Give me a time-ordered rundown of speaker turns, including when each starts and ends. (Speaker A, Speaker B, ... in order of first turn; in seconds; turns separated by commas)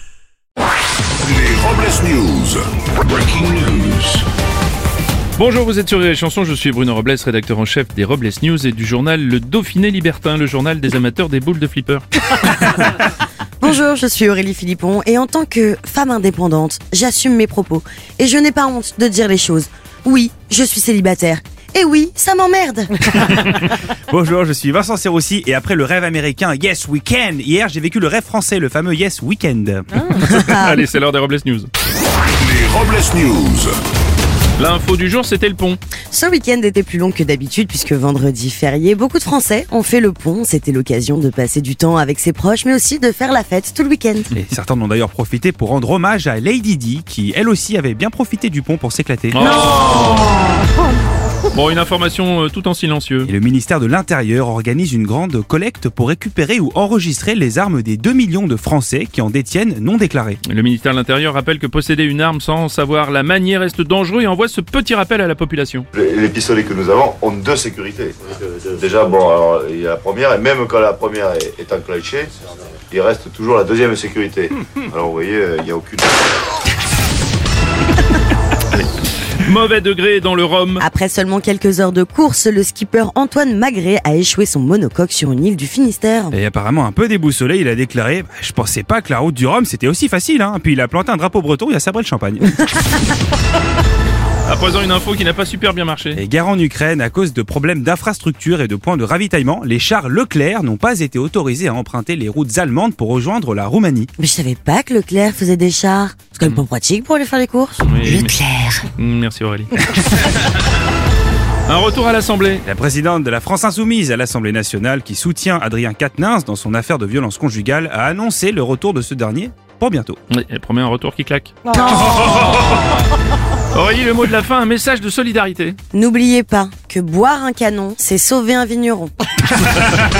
Speaker A: 1.2-4.2, Speaker B: 5.4-12.0, Speaker C: 13.6-22.9, Speaker D: 23.1-30.2, Speaker B: 30.0-31.7, Speaker C: 30.2-30.8, Speaker A: 32.4-33.8, Speaker B: 34.6-35.8, Speaker C: 36.1-44.3, Speaker D: 44.3-49.5, Speaker B: 49.3-50.4, Speaker C: 49.4-50.7, Speaker B: 51.5-53.3, Speaker D: 53.2-60.4, Speaker B: 60.5-65.9, Speaker E: 65.9-72.3, Speaker E: 72.9-76.3, Speaker B: 79.4-80.8, Speaker C: 80.8-86.3, Speaker D: 86.3-92.7, Speaker B: 94.5-96.2, Speaker D: 96.1-104.1, Speaker C: 104.2-108.9, Speaker B: 107.8-108.3, Speaker B: 109.0-110.5, Speaker B: 111.7-112.6, Speaker D: 112.6-120.2, Speaker B: 120.3-123.1, Speaker C: 121.7-122.6, Speaker B: 123.7-125.8, Speaker C: 125.9-129.1